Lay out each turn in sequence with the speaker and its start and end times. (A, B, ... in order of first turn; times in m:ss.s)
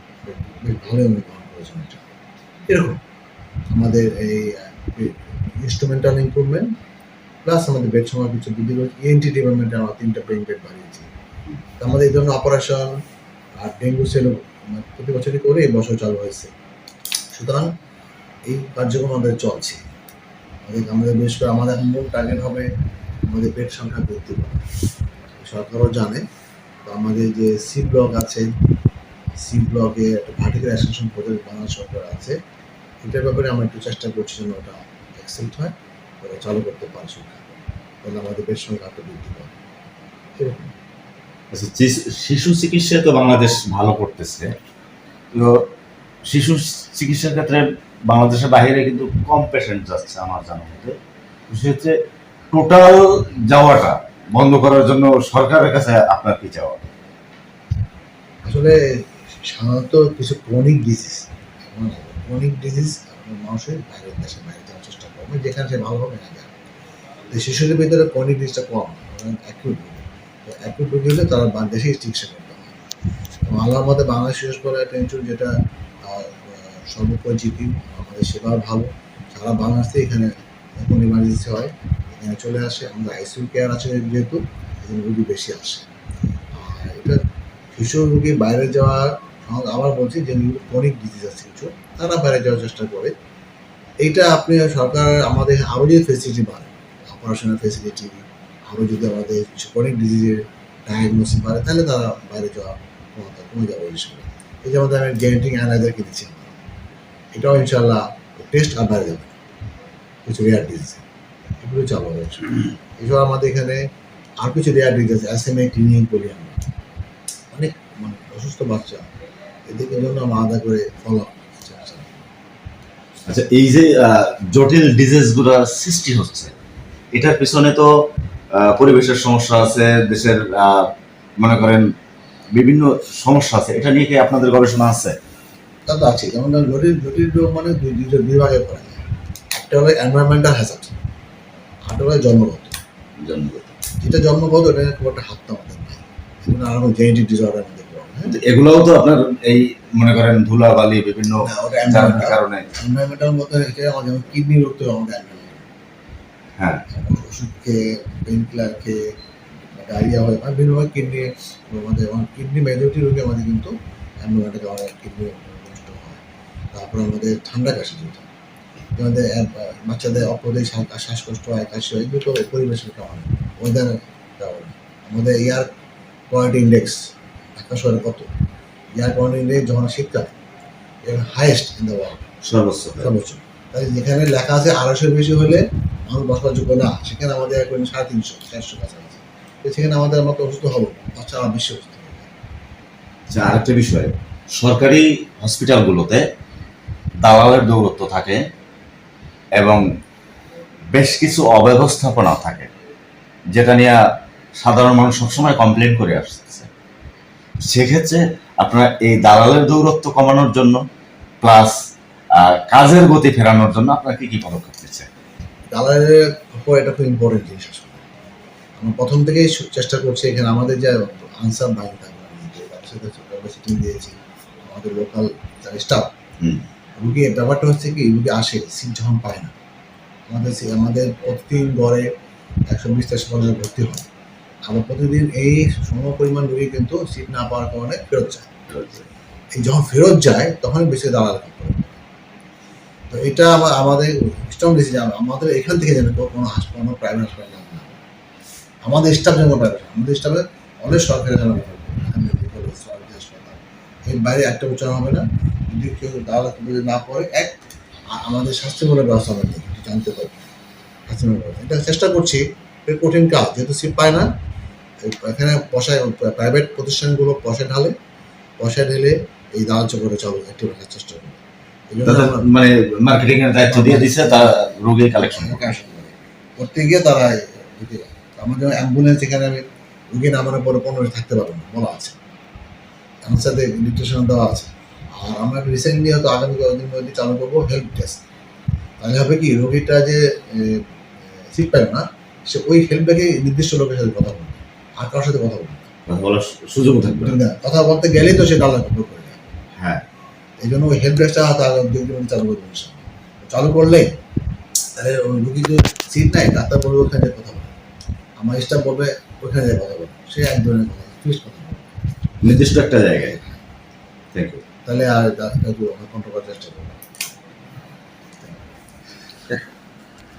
0:00.2-0:02.1 A
0:02.7-0:03.0 A
0:03.7-0:06.7 A
0:07.4-0:11.1 A
0:11.8-0:13.0 A
0:13.6-0:16.5 A
0:17.3-0:17.7 A
0:18.5-0:19.8 A
0:20.6-0:22.7 A
0:23.3-0:24.7 A
0:25.4-0:26.2 A
0:26.8-0:28.5 A
0:29.4-0:32.3 A
0:33.0-0:39.5 A
0:40.4-0:40.7 A
0:41.5-0:44.5 B
0:45.3-0:45.6 B
0:46.3-0:51.0 B
0:51.5-0:52.0 B
0:52.5-0:56.8 B
0:58.4-0:58.8 A
0:59.4-1:06.5 A
1:07.3-1:12.8 A
1:13.4-1:15.5 A
1:16.0-1:25.9 A
1:26.5-1:27.2 A
1:27.7-1:33.1 A
1:34.0-1:46.5 A
1:47.3-1:49.3 A
1:50.2-1:51.0 A
1:51.6-1:53.8 A
1:54.4-1:56.6 A
1:57.5-1:59.0 A
1:59.7-2:02.2 A
2:03.3-2:06.5 B
2:07.2-2:07.9 B
2:08.6-2:11.8 B
2:12.6-2:15.2 B
2:15.9-2:19.0 A
2:19.5-2:21.0 A
2:21.9-2:22.8 A
2:23.2-2:23.8 B
2:24.0-2:28.4 A
2:28.3-2:32.6 B
2:31.4-2:35.7 A
2:36.6-2:36.8 B
2:36.9-2:39.1 A
2:39.7-2:46.2 A
2:46.7-2:48.2 A
2:48.9-2:55.7 A
2:56.3-2:58.3 A
2:58.9-3:00.3 A
3:01.0-3:02.2 A
3:02.4-3:03.1 B
3:03.0-3:12.3 A
3:13.3-3:16.2 B
3:17.2-3:18.4 B
3:20.9-3:22.7 B
3:23.5-3:24.0 B
3:24.6-3:26.7 B
3:27.7-3:30.8 B
3:31.4-3:31.7 B
3:32.4-3:35.1 B
3:35.7-3:38.0 A
3:38.8-3:46.1 A
3:47.0-3:49.5 A
3:50.3-3:52.1 A
3:52.7-3:54.1 A
3:54.7-3:58.5 A
3:58.7-3:59.0 B
3:59.5-4:02.0 A
4:03.1-4:08.0 A
4:08.8-4:17.6 A
4:18.1-4:20.4 A
4:21.1-4:24.3 A
4:25.0-4:27.9 A
4:28.6-4:32.4 A
4:32.0-4:35.7 B
4:33.6-4:34.5 A
4:35.2-4:42.2 A
4:43.2-4:48.2 A
4:49.0-4:50.8 A
4:51.5-4:55.9 A
4:56.1-4:57.4 B
4:57.1-4:59.4 A
4:59.8-5:00.0 B
5:00.6-5:04.1 A
5:05.0-5:07.7 A
5:08.4-5:11.9 A
5:12.4-5:13.4 B
5:14.3-5:14.6 B
5:14.8-5:17.0 A